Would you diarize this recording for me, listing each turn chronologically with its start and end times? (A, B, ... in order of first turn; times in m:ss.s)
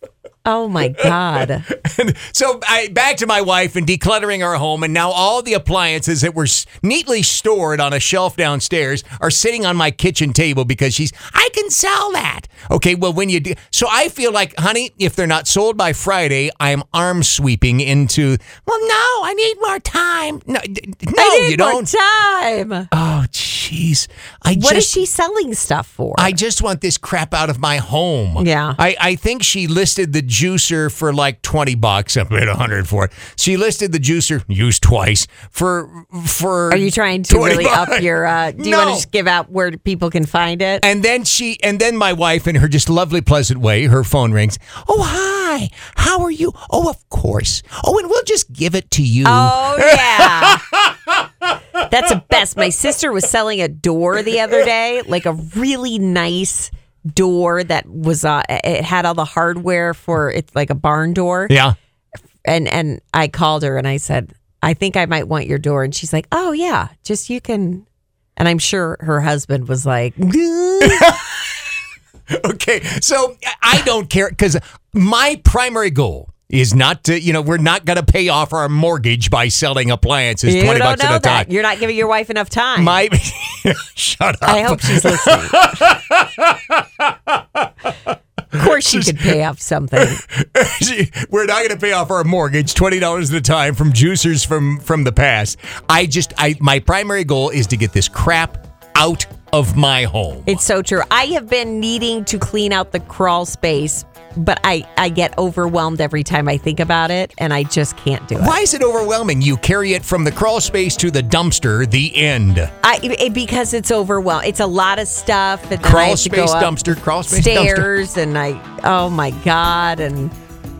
0:00.4-0:01.6 A
0:01.7-0:21.9 B
0:21.2-0:22.9 A
0:22.9-0:25.0 B
0:24.5-0:26.4 A
0:26.2-0:39.0 B
0:28.4-0:28.8 A
0:36.7-0:40.8 A
0:40.8-0:50.9 B
0:49.2-0:50.6 A
0:51.9-1:01.6 A
1:01.5-1:01.7 B
1:02.4-1:07.8 A
1:08.4-1:11.1 A
1:10.8-1:11.4 B
1:12.3-1:21.5 B
1:20.4-1:23.0 A
1:22.8-1:27.7 B
1:24.4-1:25.7 A
1:28.5-1:30.2 A
1:28.5-1:29.3 B
1:30.0-1:40.6 B
1:40.4-1:48.6 A
1:48.4-1:52.7 B
1:52.8-2:00.3 A
1:55.8-1:57.9 B